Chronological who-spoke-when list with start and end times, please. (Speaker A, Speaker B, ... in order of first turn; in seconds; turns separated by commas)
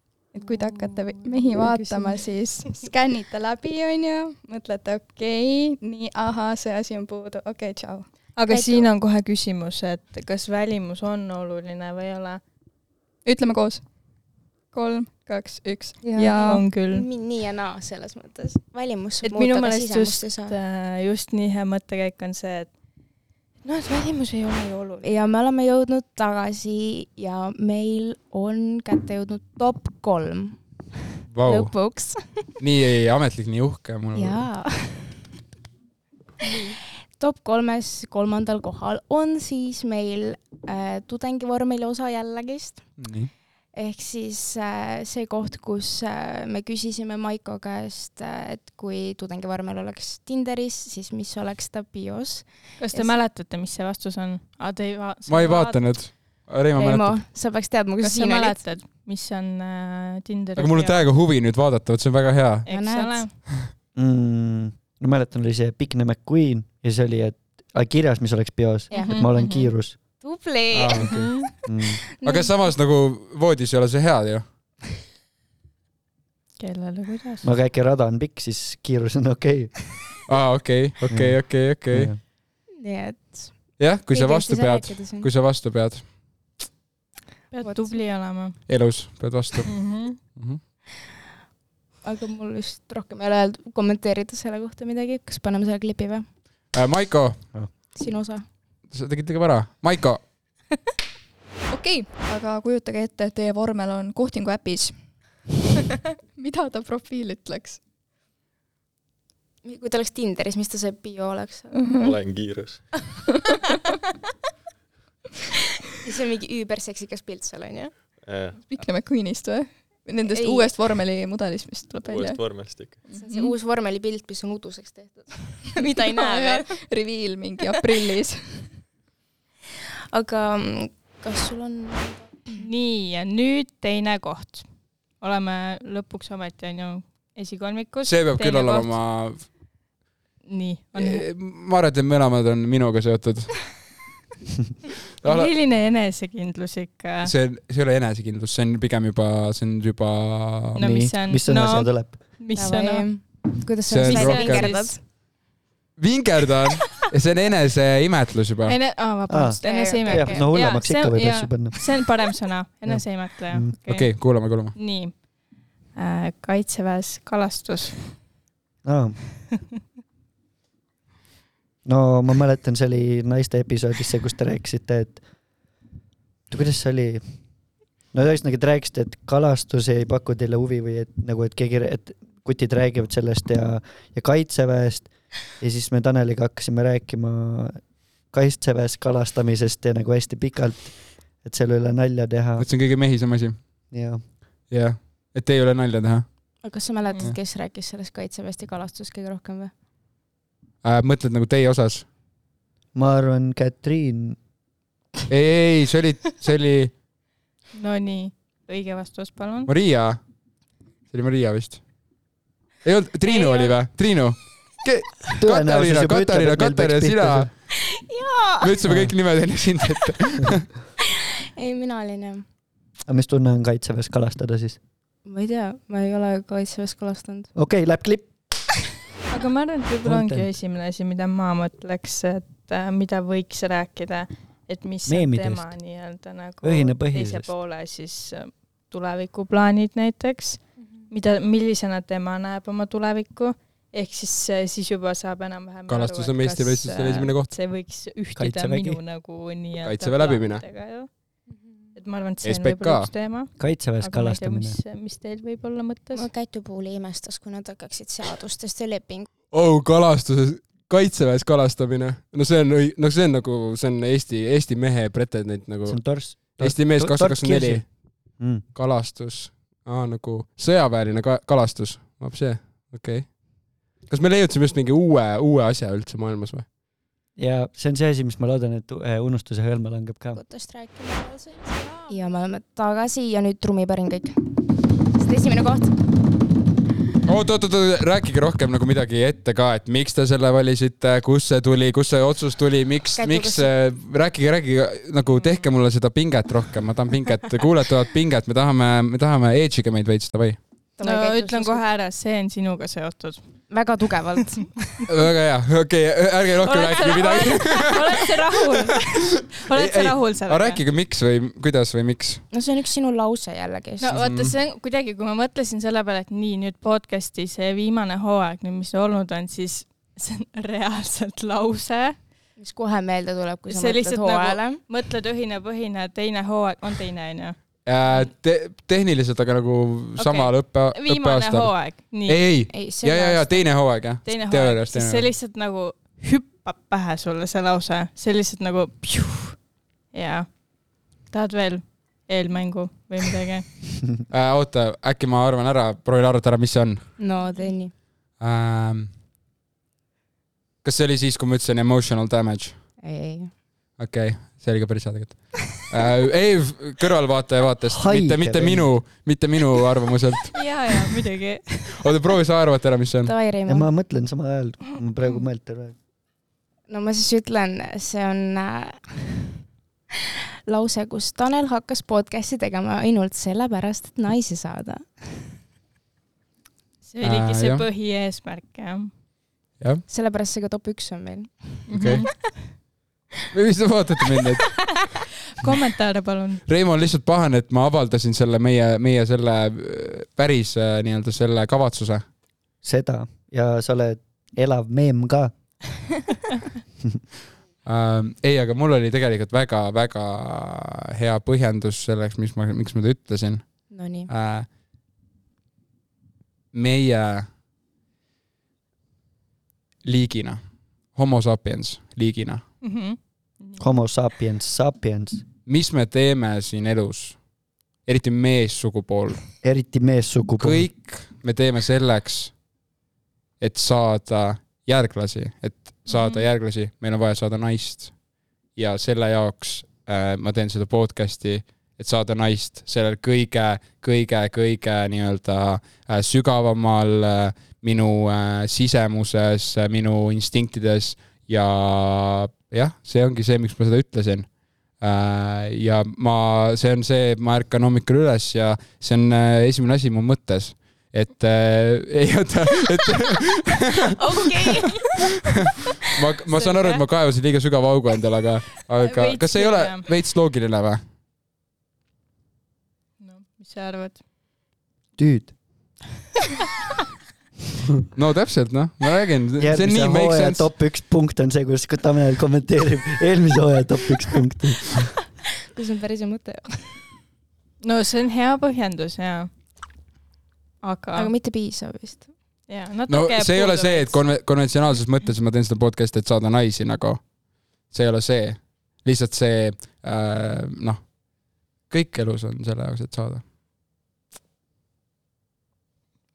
Speaker A: 0.3-8.3, Speaker B: 1.5-2.7, Speaker B: 8.3-12.4, Speaker C: 8.5-8.9, Speaker A: 13.2-13.8, Speaker A: 14.7-16.6, Speaker C: 16.0-20.6, Speaker B: 16.3-17.1, Speaker B: 19.2-22.7, Speaker B: 23.6-25.1, Speaker C: 25.0-30.6, Speaker D: 31.3-31.7, Speaker C: 31.4-32.5, Speaker D: 32.6-34.4, Speaker C: 34.1-35.2, Speaker C: 36.4-43.0, Speaker D: 43.0-43.3, Speaker C: 43.7-53.1, Speaker B: 52.8-55.8, Speaker D: 55.3-57.2, Speaker C: 56.8-58.6, Speaker B: 58.0-61.0, Speaker D: 60.6-62.6, Speaker B: 62.6-63.3, Speaker C: 62.7-63.3, Speaker E: 63.9-70.0, Speaker C: 68.9-69.2, Speaker B: 68.9-69.7, Speaker C: 70.2-71.5, Speaker D: 70.7-71.3, Speaker B: 71.0-71.5, Speaker E: 71.7-72.0, Speaker C: 72.2-72.7, Speaker D: 72.2-74.4, Speaker B: 76.6-77.5, Speaker E: 77.4-79.8, Speaker D: 80.3-82.1, Speaker E: 81.1-82.2, Speaker C: 82.8-85.3, Speaker D: 83.8-86.1, Speaker B: 87.5-88.6, Speaker C: 87.6-87.9, Speaker D: 88.7-90.6, Speaker B: 89.7-90.2, Speaker C: 92.0-96.2, Speaker D: 96.7-97.5, Speaker C: 97.9-98.4, Speaker D: 98.9-100.2, Speaker A: 101.7-105.0, Speaker A: 106.3-107.8, Speaker C: 109.6-111.7, Speaker A: 111.7-112.1, Speaker F: 112.0-112.8, Speaker C: 116.0-118.1, Speaker F: 118.2-118.6, Speaker A: 118.6-122.4, Speaker C: 120.3-120.7, Speaker F: 122.0-123.0, Speaker A: 123.0-123.5, Speaker C: 123.1-126.7, Speaker A: 126.0-128.7, Speaker C: 130.1-132.5, Speaker B: 132.6-134.7, Speaker B: 135.2-139.0, Speaker D: 138.0-139.5, Speaker B: 140.4-141.2, Speaker D: 140.9-143.7, Speaker D: 145.2-145.5, Speaker B: 145.2-147.3, Speaker D: 147.2-150.8, Speaker E: 150.8-152.2, Speaker B: 150.8-153.1, Speaker C: 152.5-155.0, Speaker D: 153.9-154.7, Speaker B: 154.0-155.0, Speaker D: 156.0-158.8, Speaker B: 158.7-165.3, Speaker E: 159.3-161.9, Speaker C: 159.6-160.5, Speaker E: 162.8-163.7, Speaker D: 163.9-164.8, Speaker B: 165.9-168.1, Speaker E: 168.8-169.2, Speaker E: 171.8-175.2, Speaker E: 176.5-177.2, Speaker E: 178.1-192.7, Speaker D: 192.6-193.6, Speaker E: 193.9-194.2, Speaker D: 194.7-196.2, Speaker C: 196.6-199.7, Speaker D: 200.8-202.1, Speaker E: 202.9-204.4, Speaker D: 205.3-206.9, Speaker B: 207.7-209.7, Speaker D: 209.7-210.2, Speaker D: 211.1-211.8, Speaker D: 212.8-217.5, Speaker B: 213.3-213.7, Speaker E: 215.4-217.5, Speaker C: 217.9-218.7, Speaker D: 218.6-220.7, Speaker E: 218.8-219.1, Speaker C: 221.6-222.4, Speaker E: 223.1-224.8, Speaker C: 225.2-227.5, Speaker E: 227.6-228.3, Speaker B: 229.3-251.1, Speaker E: 230.0-230.5, Speaker E: 235.1-235.7, Speaker E: 236.6-237.5, Speaker D: 245.9-247.5, Speaker E: 248.3-249.0, Speaker D: 249.8-250.6, Speaker C: 251.5-251.9, Speaker B: 251.9-256.3, Speaker D: 252.4-253.1, Speaker E: 253.6-254.8, Speaker C: 256.1-259.3, Speaker D: 259.5-267.9, Speaker E: 265.9-267.8, Speaker E: 268.4-268.6, Speaker D: 268.7-273.4, Speaker D: 274.1-276.7, Speaker E: 277.4-280.4, Speaker C: 280.3-284.6, Speaker C: 285.1-285.9, Speaker D: 287.2-300.6, Speaker C: 293.1-293.7, Speaker B: 295.2-295.7, Speaker C: 301.0-301.8, Speaker B: 301.0-303.5, Speaker C: 303.7-304.8, Speaker D: 305.1-308.1, Speaker B: 306.6-310.8, Speaker D: 309.7-312.4, Speaker C: 312.5-314.1, Speaker B: 314.0-322.2, Speaker D: 314.1-314.5, Speaker C: 322.6-324.8, Speaker B: 323.7-328.3, Speaker D: 327.9-335.3, Speaker B: 330.2-332.4, Speaker C: 332.7-333.6, Speaker B: 334.2-340.6, Speaker B: 341.3-343.7, Speaker D: 344.3-347.1, Speaker C: 347.2-347.9, Speaker B: 347.4-347.7, Speaker D: 348.4-349.1, Speaker D: 350.8-352.8, Speaker C: 353.0-353.5, Speaker D: 354.0-360.5, Speaker E: 357.9-358.9, Speaker B: 360.5-361.9, Speaker D: 362.0-363.3, Speaker C: 363.2-363.9, Speaker E: 363.6-365.9, Speaker C: 366.9-369.3, Speaker C: 370.7-375.4, Speaker B: 377.0-379.1, Speaker D: 377.2-377.8, Speaker D: 379.8-380.0, Speaker C: 380.1-381.8, Speaker B: 381.9-382.7, Speaker D: 381.9-382.2, Speaker D: 383.5-384.8, Speaker B: 385.6-386.6, Speaker D: 386.7-392.2, Speaker E: 392.8-395.5, Speaker D: 397.8-404.7, Speaker C: 403.9-404.3, Speaker D: 406.7-407.5, Speaker D: 410.0-410.6, Speaker D: 411.1-412.6, Speaker B: 412.8-413.8, Speaker E: 413.8-415.4, Speaker D: 415.6-417.4, Speaker D: 418.1-419.4, Speaker E: 419.6-420.8, Speaker D: 420.6-422.5, Speaker D: 423.6-428.1, Speaker B: 426.1-426.4, Speaker D: 428.8-454.0, Speaker C: 454.1-455.1, Speaker D: 456.0-461.0, Speaker B: 456.5-457.0, Speaker B: 459.0-460.1, Speaker B: 463.2-464.2, Speaker E: 465.2-465.5, Speaker D: 468.1-470.7, Speaker E: 469.6-475.1, Speaker C: 475.7-476.8, Speaker B: 477.8-479.5, Speaker B: 480.8-481.3, Speaker C: 481.1-482.3, Speaker B: 482.7-484.2, Speaker D: 483.1-487.3, Speaker D: 487.8-491.1, Speaker D: 491.9-493.4